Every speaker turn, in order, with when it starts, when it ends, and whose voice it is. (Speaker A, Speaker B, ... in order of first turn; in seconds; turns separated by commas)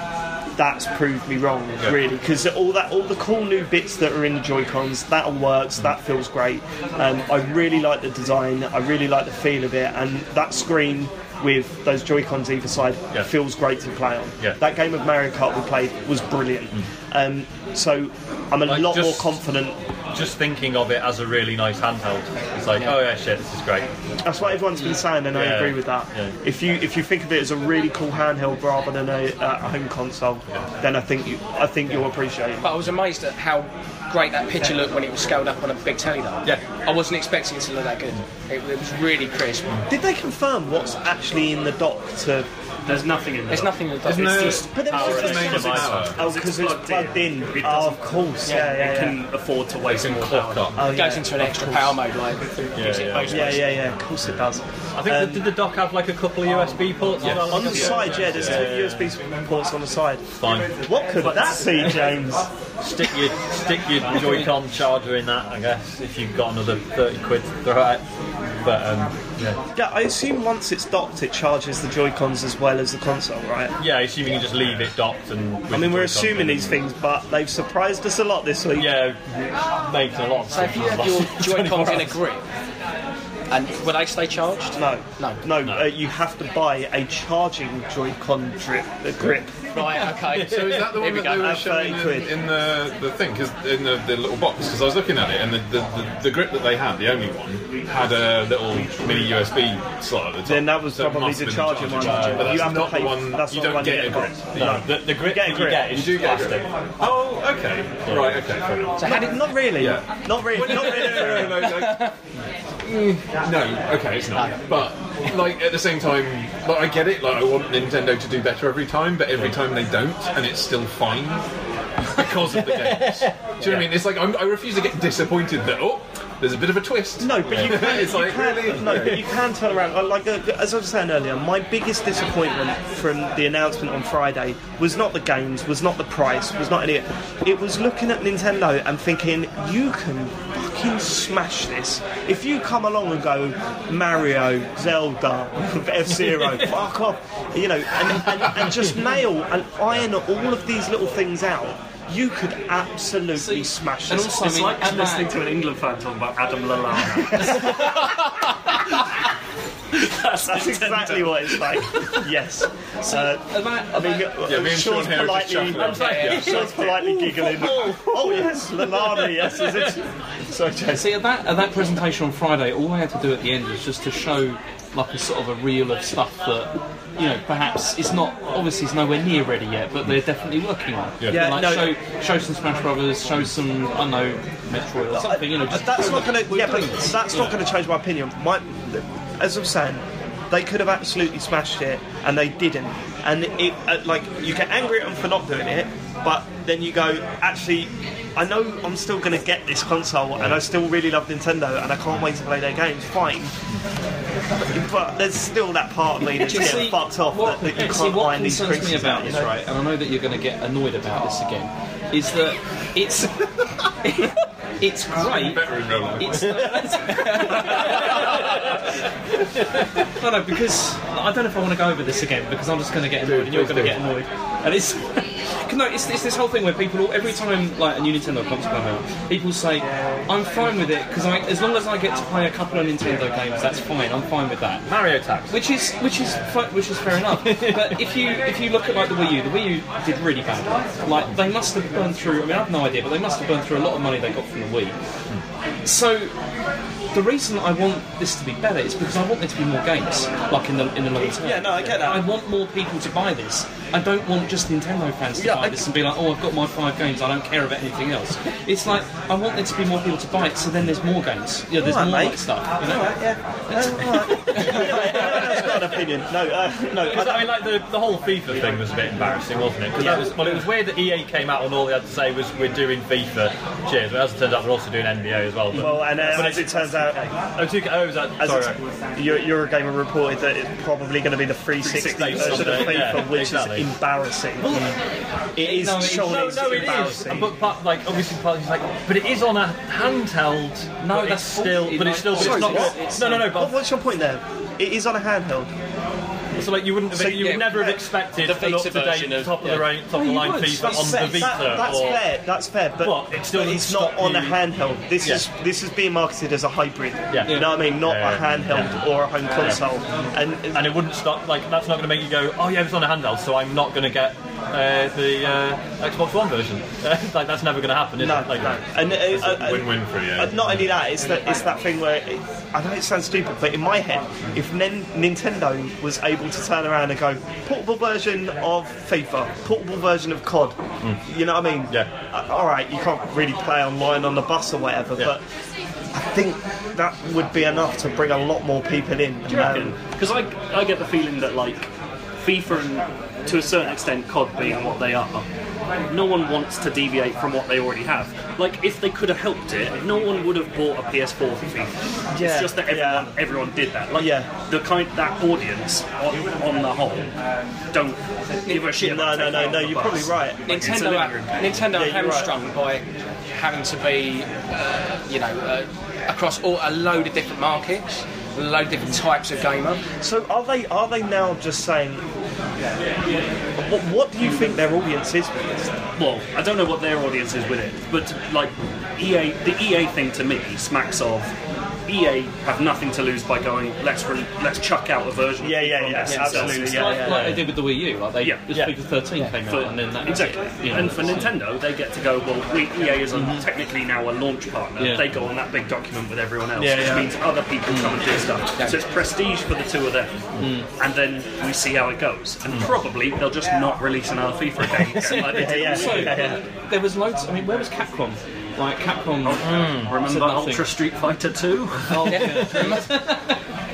Speaker A: 0.6-19.8, Speaker B: 18.6-19.4, Speaker B: 20.1-23.9, Speaker A: 24.2-32.8, Speaker B: 25.3-26.3, Speaker C: 32.6-39.8, Speaker A: 39.9-42.5, Speaker D: 42.9-45.6, Speaker C: 43.5-45.6, Speaker E: 44.0-46.2, Speaker A: 44.5-49.2, Speaker B: 44.9-46.1, Speaker D: 46.1-50.8, Speaker C: 48.5-48.8, Speaker B: 49.9-50.8, Speaker E: 50.1-50.6, Speaker A: 50.8-52.0, Speaker C: 50.8-53.7, Speaker B: 52.7-53.7, Speaker A: 53.2-55.5, Speaker B: 54.9-59.1, Speaker E: 57.2-58.6, Speaker A: 57.4-62.5, Speaker B: 60.4-60.8, Speaker D: 61.2-62.0, Speaker B: 62.8-68.0, Speaker B: 68.6-69.6, Speaker A: 69.8-73.7, Speaker B: 73.8-76.8, Speaker A: 75.7-78.9, Speaker B: 78.7-79.2, Speaker B: 79.8-82.2, Speaker C: 80.5-82.4, Speaker C: 83.5-85.4, Speaker A: 84.8-89.6, Speaker C: 89.7-91.5, Speaker B: 90.1-90.8, Speaker E: 90.3-104.5, Speaker A: 91.3-92.3, Speaker A: 100.4-106.0, Speaker B: 101.9-102.9, Speaker B: 104.5-106.7, Speaker E: 105.8-112.1, Speaker B: 108.0-108.5, Speaker C: 109.0-109.4, Speaker A: 109.0-111.7, Speaker C: 110.9-112.1, Speaker E: 112.8-121.5, Speaker E: 122.0-129.3, Speaker B: 122.5-123.3, Speaker C: 123.6-123.9, Speaker A: 127.2-154.4, Speaker F: 153.3-155.4, Speaker D: 154.2-158.2, Speaker D: 159.9-161.8, Speaker A: 160.5-171.2, Speaker F: 163.0-164.3, Speaker E: 164.4-166.7, Speaker F: 165.7-168.2, Speaker B: 166.2-166.6, Speaker F: 170.9-187.5, Speaker E: 181.2-181.5, Speaker A: 181.3-182.0, Speaker A: 185.1-203.5, Speaker A: 204.7-209.5, Speaker F: 206.3-218.7, Speaker E: 215.2-216.7, Speaker B: 217.6-218.3, Speaker F: 220.1-234.8, Speaker E: 223.2-224.0, Speaker B: 234.9-235.6, Speaker F: 235.5-245.0, Speaker B: 237.4-238.1, Speaker F: 245.8-246.3, Speaker F: 247.1-263.0, Speaker A: 251.4-252.2, Speaker A: 255.3-255.9, Speaker A: 261.8-267.6, Speaker F: 263.7-265.6, Speaker B: 267.0-278.8, Speaker A: 270.0-270.5, Speaker A: 275.7-277.3, Speaker A: 278.4-284.8, Speaker D: 281.8-283.0, Speaker B: 282.0-283.9, Speaker A: 285.5-287.5, Speaker F: 285.6-287.1, Speaker B: 285.9-293.8, Speaker F: 291.0-293.4, Speaker A: 292.3-295.7, Speaker B: 296.6-302.3, Speaker A: 297.1-298.0, Speaker C: 297.3-297.6, Speaker C: 298.4-299.9, Speaker F: 300.1-301.9, Speaker A: 300.8-310.9, Speaker B: 303.0-304.6, Speaker B: 305.2-305.4, Speaker B: 307.3-309.0, Speaker B: 310.7-318.8, Speaker A: 318.2-335.4, Speaker E: 319.2-321.0, Speaker A: 336.1-339.9, Speaker D: 339.5-345.5, Speaker D: 346.1-357.3, Speaker A: 352.4-353.3, Speaker A: 354.1-354.5, Speaker D: 357.9-361.9, Speaker C: 358.6-358.9, Speaker A: 358.8-360.8, Speaker C: 360.7-370.1, Speaker A: 361.9-362.5, Speaker A: 370.2-372.2, Speaker A: 373.8-375.9, Speaker D: 376.1-381.5, Speaker D: 382.1-387.2, Speaker A: 385.6-387.6, Speaker C: 386.2-386.6, Speaker F: 386.5-391.5, Speaker B: 387.2-387.7, Speaker D: 388.4-388.7, Speaker D: 389.6-406.5, Speaker F: 393.3-393.6, Speaker F: 395.0-395.3, Speaker A: 396.8-397.3, Speaker F: 397.9-398.1, Speaker F: 400.6-400.8, Speaker F: 405.1-410.9, Speaker A: 405.4-406.6, Speaker D: 409.4-412.4, Speaker B: 409.6-410.2, Speaker F: 412.0-413.6, Speaker C: 412.3-413.2